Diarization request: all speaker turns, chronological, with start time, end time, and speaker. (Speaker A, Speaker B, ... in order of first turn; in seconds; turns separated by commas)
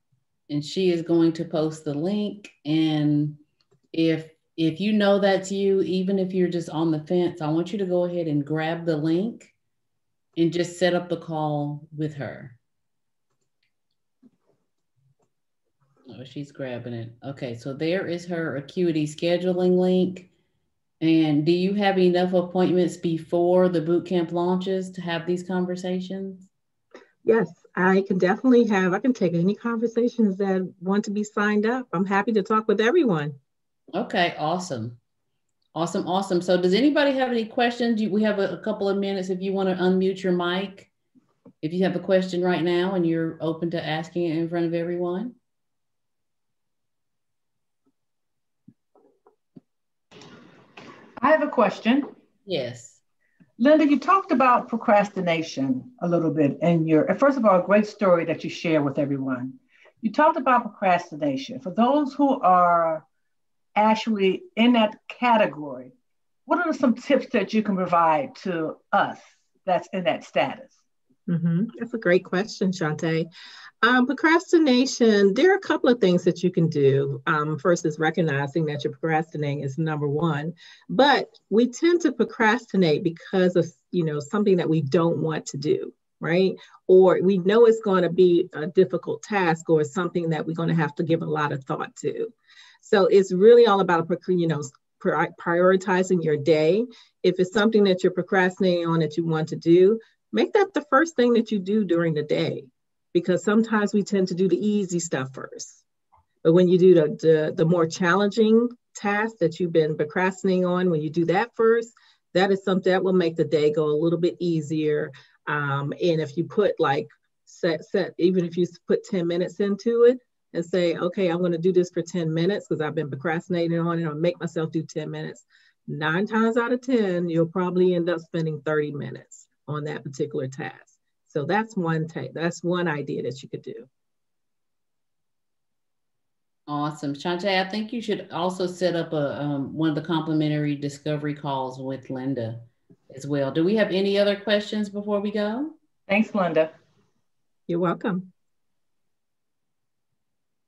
Speaker A: 0.5-3.4, Speaker A: 3.9-9.5, Speaker A: 10.4-12.6, Speaker A: 16.1-20.3, Speaker A: 21.0-26.5, Speaker B: 27.2-33.4, Speaker A: 33.9-35.0, Speaker A: 35.8-40.9, Speaker A: 41.6-45.4, Speaker C: 51.2-52.1, Speaker A: 52.5-53.0, Speaker C: 53.6-63.0, Speaker C: 63.8-65.9, Speaker C: 66.5-70.8, Speaker B: 71.3-73.3, Speaker B: 73.8-105.8, Speaker B: 106.4-133.9, Speaker A: 136.7-145.8, Speaker C: 146.1-146.7, Speaker B: 147.7-148.3